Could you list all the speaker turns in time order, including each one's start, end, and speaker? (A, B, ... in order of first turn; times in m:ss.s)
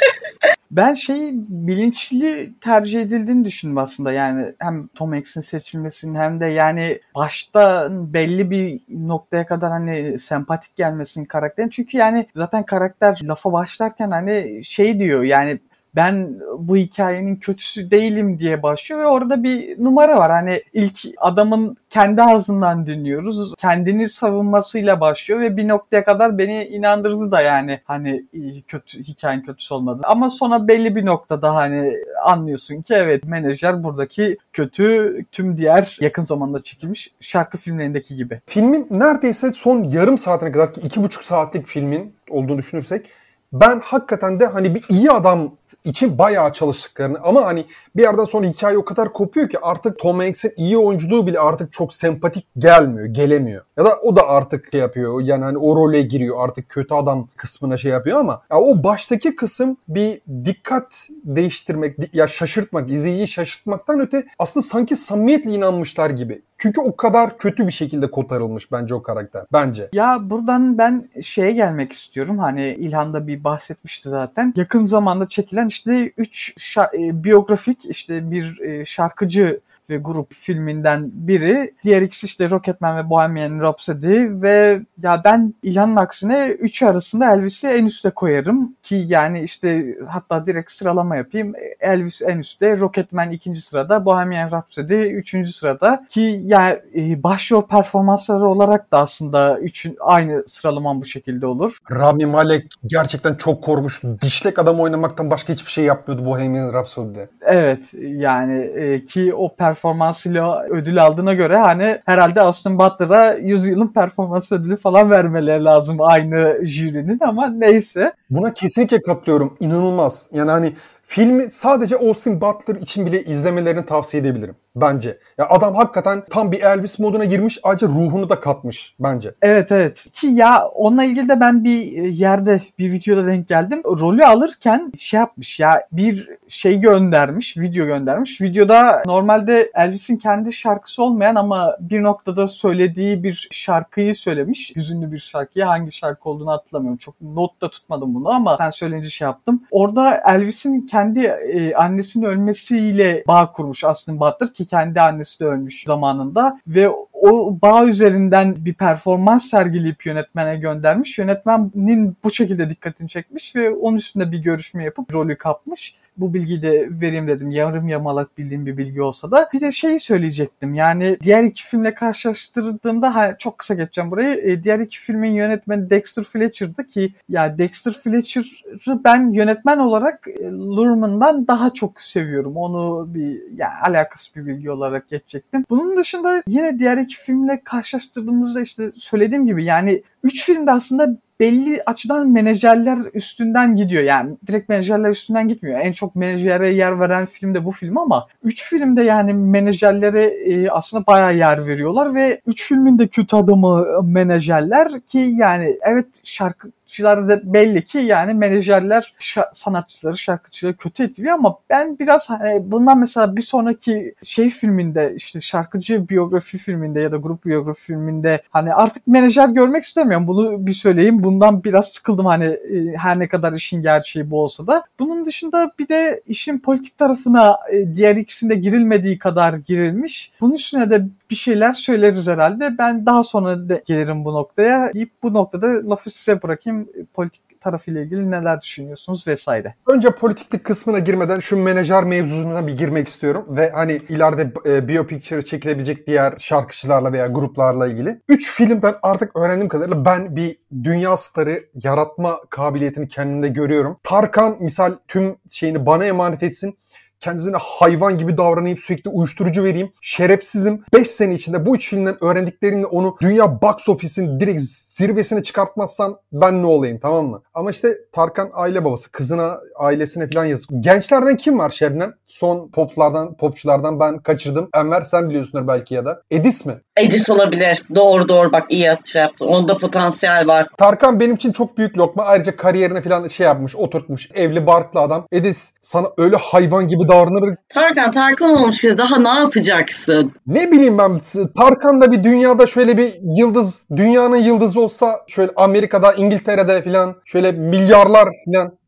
0:00.7-0:38.4 A
0:38.5-1:09.9 B
1:09.9-1:41.8 A
1:41.9-1:47.3 B
1:47.4-1:58.1 A
1:58.3-2:09.4 B
2:09.4-3:59.8 A
3:59.9-4:36.8 B
4:37.0-4:40.7 C
4:40.8-4:47.6 B
4:47.7-4:50.3 C
4:50.5-4:58.7 B